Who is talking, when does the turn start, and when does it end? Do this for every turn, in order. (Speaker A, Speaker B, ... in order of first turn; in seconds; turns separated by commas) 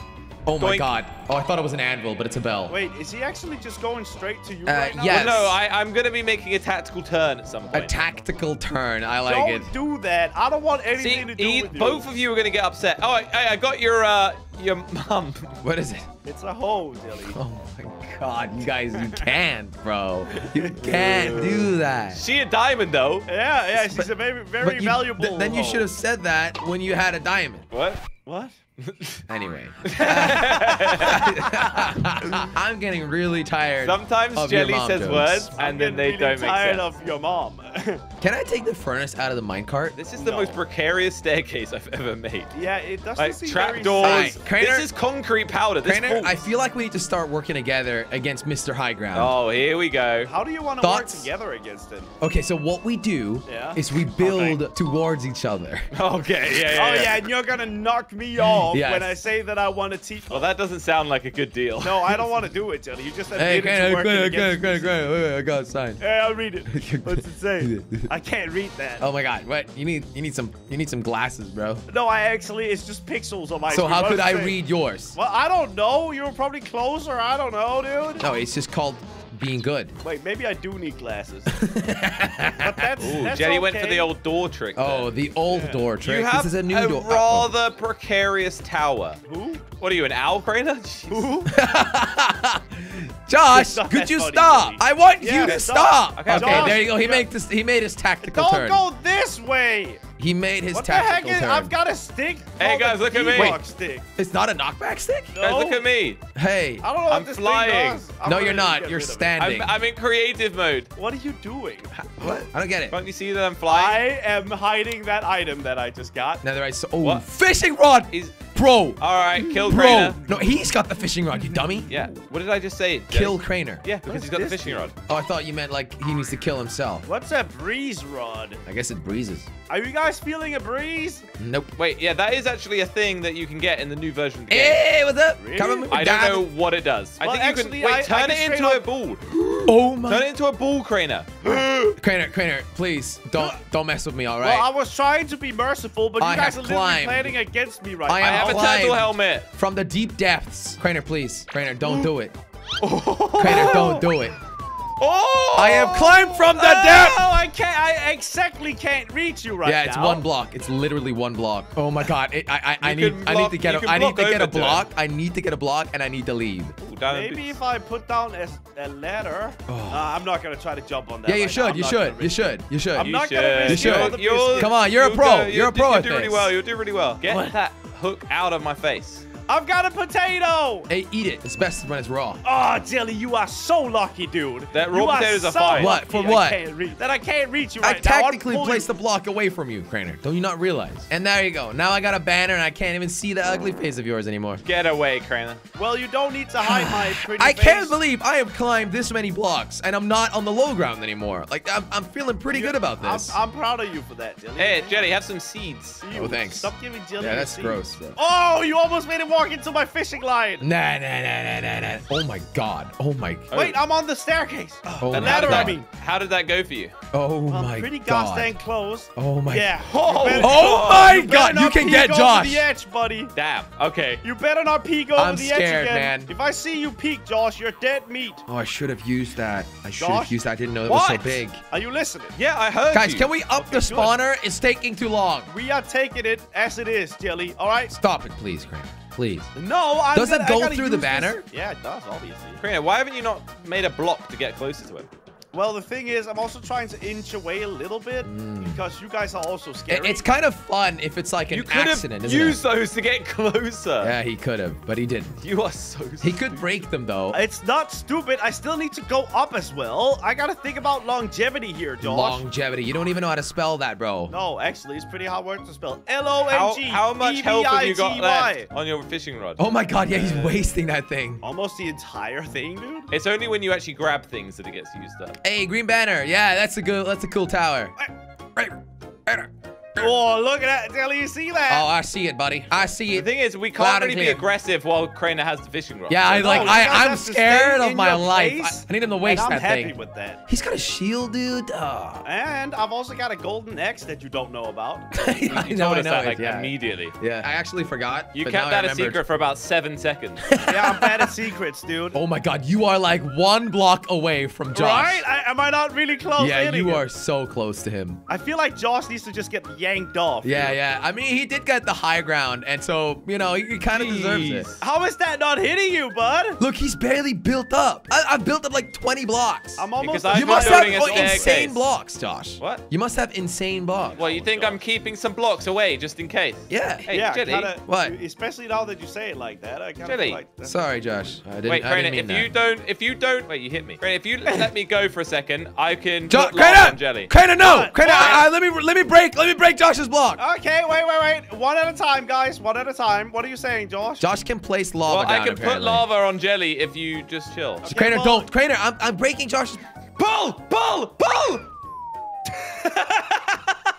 Speaker A: 0.5-2.8, Speaker B: 0.6-1.0, Speaker C: 2.7-5.5, Speaker A: 4.7-5.6, Speaker B: 5.0-8.1, Speaker A: 7.7-9.7, Speaker C: 9.2-12.1, Speaker B: 11.0-15.6, Speaker A: 15.6-16.1, Speaker C: 16.2-17.4, Speaker A: 17.2-22.2, Speaker C: 18.9-19.3, Speaker C: 20.3-21.7, Speaker B: 20.8-23.3, Speaker C: 23.3-25.9, Speaker A: 23.7-27.7, Speaker B: 27.7-28.1, Speaker C: 28.2-28.6, Speaker B: 28.8-29.2, Speaker A: 29.3-35.5, Speaker B: 29.8-32.5, Speaker B: 33.8-36.9, Speaker C: 35.6-38.0, Speaker A: 38.2-40.0, Speaker B: 39.9-42.6, Speaker C: 40.1-40.6, Speaker C: 42.5-44.5, Speaker B: 43.2-46.5, Speaker A: 44.0-44.9, Speaker A: 45.8-49.4, Speaker B: 49.1-50.3, Speaker C: 50.2-52.1, Speaker A: 50.8-51.3, Speaker A: 52.2-55.9, Speaker C: 53.5-54.6, Speaker B: 55.9-57.2, Speaker C: 56.6-60.5, Speaker A: 58.7-59.2, Speaker B: 60.3-62.3, Speaker C: 61.8-64.9, Speaker A: 63.4-66.0, Speaker C: 66.0-69.1, Speaker A: 66.7-68.1, Speaker A: 69.0-71.8, Speaker C: 71.9-74.6, Speaker A: 73.7-75.2, Speaker C: 75.1-78.3, Speaker A: 78.2-80.0, Speaker C: 80.0-81.5, Speaker A: 81.5-82.8, Speaker C: 82.6-84.1, Speaker B: 83.0-85.2, Speaker A: 84.8-87.5, Speaker C: 85.5-85.9, Speaker B: 86.0-91.3, Speaker C: 89.3-89.7, Speaker C: 91.1-91.5, Speaker A: 91.5-98.8, Speaker C: 93.5-97.3, Speaker B: 95.4-96.9, Speaker C: 98.2-100.0, Speaker A: 100.2-101.7, Speaker C: 100.7-104.0, Speaker B: 102.6-103.6, Speaker A: 103.3-103.6, Speaker A: 104.2-105.4, Speaker C: 105.3-105.8, Speaker B: 105.4-106.2, Speaker A: 106.3-106.8, Speaker C: 106.8-109.4, Speaker B: 107.1-108.1, Speaker A: 108.2-109.7, Speaker B: 109.4-110.9, Speaker C: 111.0-112.5, Speaker A: 111.9-113.0, Speaker B: 112.9-114.0, Speaker C: 113.7-116.4, Speaker A: 116.4-119.0, Speaker B: 117.0-117.2, Speaker B: 118.1-120.2, Speaker C: 119.4-120.5, Speaker A: 119.6-121.9, Speaker B: 121.9-124.9, Speaker A: 123.1-123.8, Speaker C: 124.0-124.9, Speaker A: 125.1-127.1, Speaker C: 127.0-128.6, Speaker A: 128.7-129.5, Speaker C: 129.7-131.3, Speaker A: 131.4-131.7, Speaker B: 131.8-134.9, Speaker A: 134.5-136.5, Speaker C: 135.4-136.0, Speaker B: 135.9-141.5, Speaker C: 137.2-138.9, Speaker A: 139.7-140.3, Speaker A: 141.9-144.7, Speaker C: 144.4-148.8, Speaker A: 146.2-147.3, Speaker A: 148.1-152.4, Speaker B: 148.2-149.5, Speaker B: 151.8-152.1, Speaker B: 152.8-154.1, Speaker A: 153.4-154.4, Speaker B: 155.0-156.4, Speaker A: 155.6-157.3, Speaker C: 156.4-160.3, Speaker A: 159.6-166.8, Speaker B: 162.8-164.9, Speaker B: 166.8-167.6, Speaker C: 167.1-174.8, Speaker A: 169.7-170.2, Speaker A: 171.2-176.5, Speaker B: 173.0-179.3, Speaker C: 177.3-177.6, Speaker C: 179.4-180.9, Speaker A: 180.9-182.4, Speaker C: 182.4-188.9, Speaker B: 184.7-186.0, Speaker A: 185.7-186.6, Speaker A: 187.8-194.6, Speaker B: 194.6-195.6, Speaker C: 195.8-198.0, Speaker A: 196.6-203.4, Speaker C: 202.5-205.2, Speaker B: 204.6-206.0, Speaker C: 206.0-210.7, Speaker A: 206.1-208.2, Speaker A: 210.6-213.5, Speaker B: 213.5-213.8, Speaker C: 213.5-215.9, Speaker A: 215.0-215.8, Speaker B: 215.1-216.9, Speaker A: 217.1-218.6, Speaker C: 217.5-223.4, Speaker A: 219.2-219.7, Speaker B: 219.8-221.2, Speaker A: 220.3-222.7, Speaker B: 223.3-224.2, Speaker C: 224.2-228.4, Speaker A: 225.2-226.3, Speaker A: 228.5-231.6, Speaker C: 230.0-230.4, Speaker B: 230.8-231.3, Speaker C: 231.2-232.4, Speaker B: 232.3-233.4, Speaker A: 232.9-235.5, Speaker C: 233.4-234.2, Speaker C: 235.5-237.9, Speaker A: 237.9-239.5, Speaker C: 239.5-242.6, Speaker A: 240.1-241.4, Speaker B: 242.6-245.1, Speaker C: 245.5-250.3, Speaker A: 248.2-248.8, Speaker A: 249.9-252.6, Speaker B: 251.5-254.2, Speaker A: 254.0-255.4, Speaker B: 255.4-256.6, Speaker A: 256.2-257.4, Speaker C: 257.3-262.4, Speaker A: 262.0-264.3, Speaker C: 264.3-268.7, Speaker B: 266.5-269.6, Speaker A: 269.6-271.4, Speaker C: 270.1-270.6, Speaker C: 271.4-273.1, Speaker B: 273.1-275.4, Speaker A: 275.4-278.0, Speaker A: 278.6-280.1, Speaker C: 280.0-281.9, Speaker A: 281.7-284.5, Speaker B: 283.1-287.0, Speaker A: 286.1-292.2, Speaker C: 286.4-290.4, Speaker C: 292.2-295.3, Speaker A: 295.1-299.2, Speaker B: 295.4-297.2, Speaker B: 298.3-300.6, Speaker A: 300.5-301.3, Speaker C: 300.6-302.2, Speaker A: 302.1-305.2, Speaker C: 304.7-307.1, Speaker A: 306.4-308.2, Speaker C: 308.3-310.8, Speaker A: 310.4-314.7, Speaker B: 313.9-314.8, Speaker C: 314.8-316.6, Speaker A: 316.6-324.2, Speaker C: 319.8-321.7, Speaker B: 320.0-321.9, Speaker B: 322.6-322.9, Speaker C: 324.0-324.8, Speaker B: 324.1-327.8, Speaker A: 326.7-327.1, Speaker C: 327.1-330.8, Speaker A: 327.8-328.1, Speaker B: 330.0-330.4, Speaker A: 330.6-332.5, Speaker B: 331.6-337.4, Speaker A: 336.3-340.4, Speaker C: 337.5-338.5, Speaker C: 340.4-344.3, Speaker A: 344.2-346.1, Speaker B: 345.1-347.9, Speaker C: 347.9-348.5, Speaker A: 347.9-349.8, Speaker B: 350.2-351.7, Speaker C: 352.8-353.4